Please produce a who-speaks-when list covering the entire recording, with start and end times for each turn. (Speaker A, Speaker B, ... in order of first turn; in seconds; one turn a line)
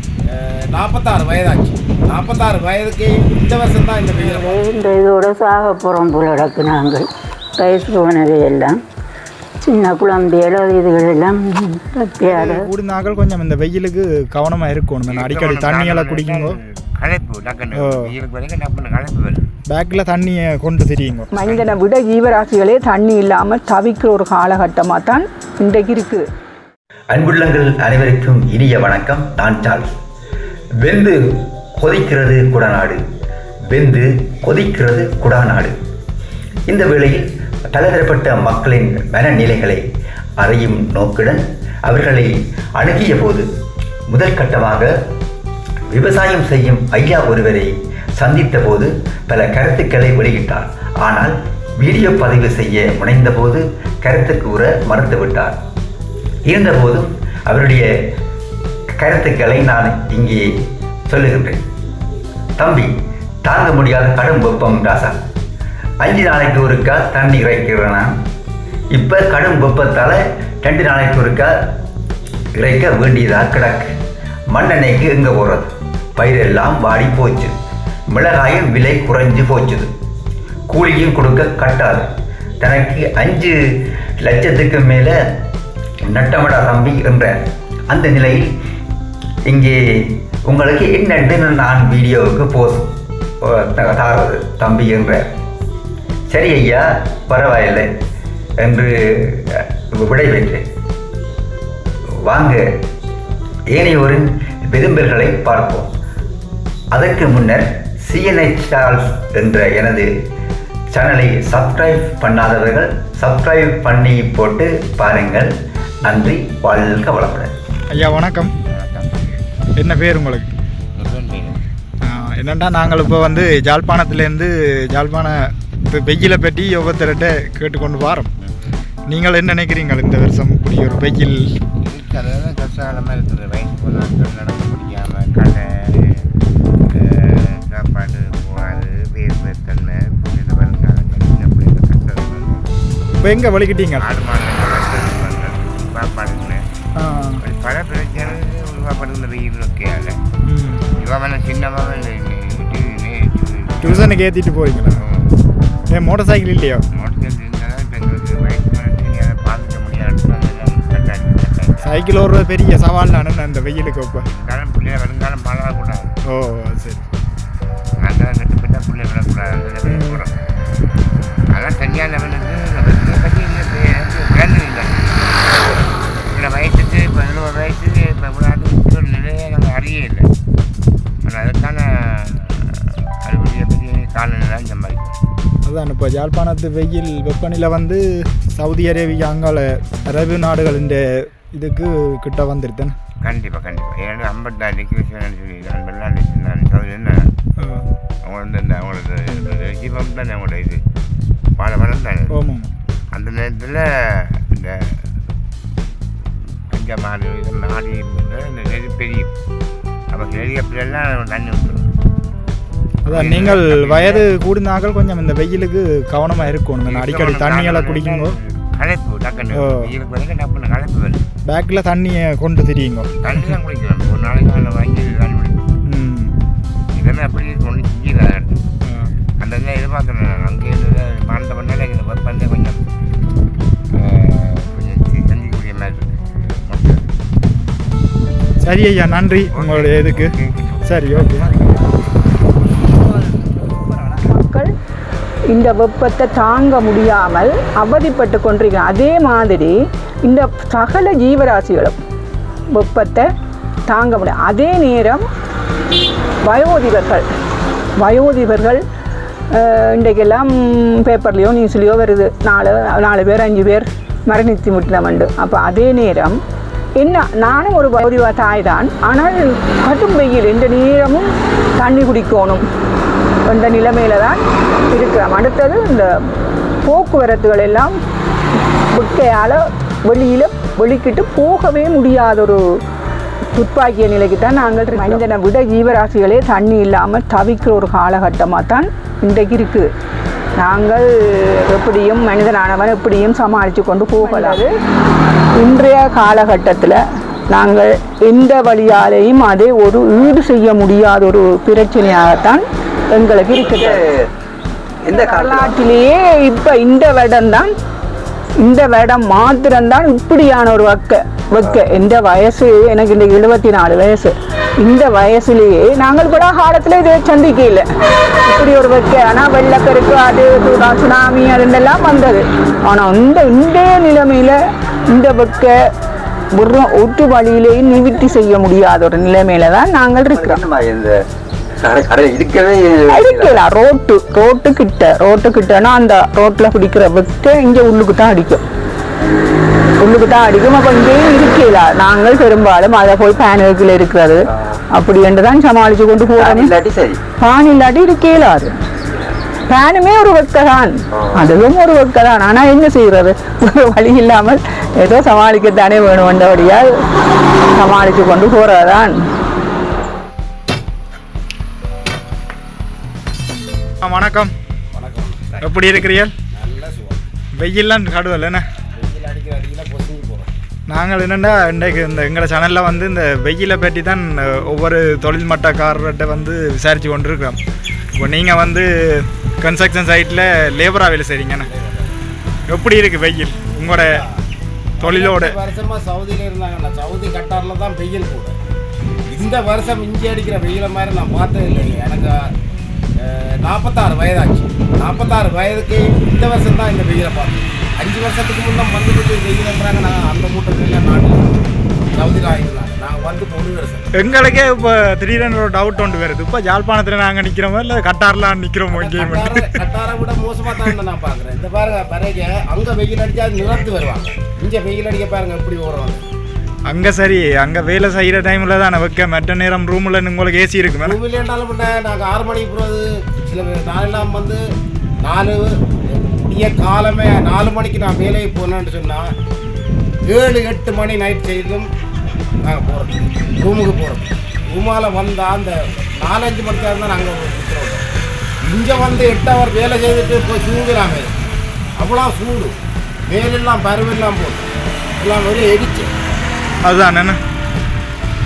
Speaker A: 0.3-4.6
Speaker B: 4.3-8.8
Speaker B: 9.6-12.7
Speaker C: 12.3-16.6
Speaker D: 15.1-19.5
Speaker C: 17.7-18.1
Speaker C: 19.7-21.3
Speaker E: 21.3-26.3
Speaker F: 27.1-29.9
Speaker F: 30.8-33.0
Speaker F: 33.7-35.8
Speaker F: 36.7-39.8
Speaker F: 40.4-43.5
Speaker F: 44.1-44.9
Speaker F: 45.9-55.6
Speaker F: 56.5-57.9
Speaker F: 59.0-60.5
Speaker F: 61.1-61.6
Speaker F: 62.6-62.9
Speaker F: 63.4-65.2
Speaker F: 66.0-68.1
Speaker F: 68.9-71.6
Speaker F: 72.6-73.9
Speaker F: 74.5-77.5
Speaker F: 78.1-79.9
Speaker F: 80.7-82.1
Speaker F: 82.6-83.6
Speaker F: 84.2-85.2
Speaker F: 86.1-87.4
Speaker F: 87.9-88.5
Speaker F: 89.5-92.9
Speaker F: 93.4-95.3
Speaker F: 96.3-97.9
Speaker F: 98.6-100.6
Speaker F: 102.2-102.6
Speaker F: 103.7-105.9
Speaker F: 106.9-110.1
Speaker F: 110.9-115.5
Speaker F: 116.0-117.5
Speaker C: 117.9-118.5
Speaker D: 118.7-119.4
Speaker C: 119.8-120.5
Speaker D: 121.0-121.6
Speaker C: 122.0-125.4
Speaker C: 125.9-128.3
Speaker C: 129.1-131.4
Speaker D: 131.8-136.2
Speaker D: 136.9-142.6
Speaker C: 143.2-144.1
Speaker D: 144.0-146.6
Speaker C: 147.0-147.4
Speaker D: 147.4-150.2
Speaker C: 150.5-150.8
Speaker D: 151.0-154.2
Speaker C: 153.8-155.0
Speaker D: 155.1-155.3
Speaker C: 155.9-156.8
Speaker D: 156.9-162.0
Speaker C: 161.8-164.2
Speaker D: 164.3-166.2
Speaker C: 166.3-167.0
Speaker D: 168.0-170.5
Speaker C: 169.9-170.2
Speaker D: 171.5-180.3
Speaker D: 181.2-185.2
Speaker C: 185.7-192.9
Speaker D: 193.2-197.2
Speaker C: 197.6-197.9
Speaker D: 198.2-200.8
Speaker D: 201.6-202.3
Speaker C: 202.3-202.7
Speaker D: 203.1-205.1
Speaker D: 206.7-209.3
Speaker D: 210.1-211.9
Speaker C: 213.1-218.4
Speaker D: 213.1-214.3
Speaker D: 216.9-221.2
Speaker C: 219.5-219.9
Speaker C: 221.5-223.5
Speaker D: 223.2-225.6
Speaker C: 225.9-226.3
Speaker D: 226.9-228.7
Speaker C: 228.8-229.1
Speaker D: 229.4-232.8
Speaker D: 234.0-237.1
Speaker C: 238.6-240.3
Speaker D: 239.5-242.1
Speaker C: 240.9-241.5
Speaker E: 244.3-244.7
Speaker E: 245.5-249.7
Speaker E: 250.3-252.0
Speaker E: 252.7-253.3
Speaker E: 253.9-255.2
Speaker E: 256.5-257.2
Speaker E: 258.0-258.8
Speaker E: 259.5-266.4
Speaker E: 267.0-271.3
Speaker E: 271.8-272.6
Speaker E: 273.5-274.4
Speaker E: 274.9-276.1
Speaker E: 276.9-277.9
Speaker E: 278.9-282.6
Speaker E: 283.6-289.9
Speaker E: 290.6-294.7
Speaker E: 295.6-297.0
Speaker E: 297.5-304.0
Speaker F: 303.5-304.3
Speaker F: 305.1-305.9
Speaker E: 305.1-307.7
Speaker E: 308.6-317.9
Speaker E: 318.5-324.6
Speaker E: 325.1-325.7
Speaker E: 326.6-330.6
Speaker F: 330.3-331.1
Speaker F: 331.8-333.6
Speaker E: 333.1-338.6
Speaker E: 340.0-344.4
Speaker F: 344.5-344.8
Speaker E: 344.9-346.7
Speaker F: 346.4-347.2
Speaker E: 347.4-348.7
Speaker E: 349.7-356.9
Speaker F: 351.1-351.6
Speaker E: 357.7-359.1
Speaker C: 364.0-364.5
Speaker A: 364.9-365.6
Speaker C: 365.6-366.3
Speaker A: 366.5-367.3
Speaker C: 367.6-368.6
Speaker A: 369.0-370.5
Speaker C: 370.9-377.6
Speaker C: 378.2-381.7
Speaker A: 381.7-382.2
Speaker C: 382.7-384.1
Speaker A: 383.9-384.4
Speaker A: 385.0-388.6
Speaker C: 385.0-385.6
Speaker A: 389.3-392.5
Speaker A: 393.2-401.6
Speaker A: 402.2-404.1
Speaker C: 404.2-409.8
Speaker A: 408.9-416.2
Speaker C: 416.9-421.2
Speaker A: 421.0-424.6
Speaker A: 425.2-429.3
Speaker A: 430.3-431.9
Speaker A: 432.6-438.1
Speaker A: 438.6-441.3
Speaker A: 442.0-442.8
Speaker A: 443.3-446.1
Speaker C: 446.9-447.4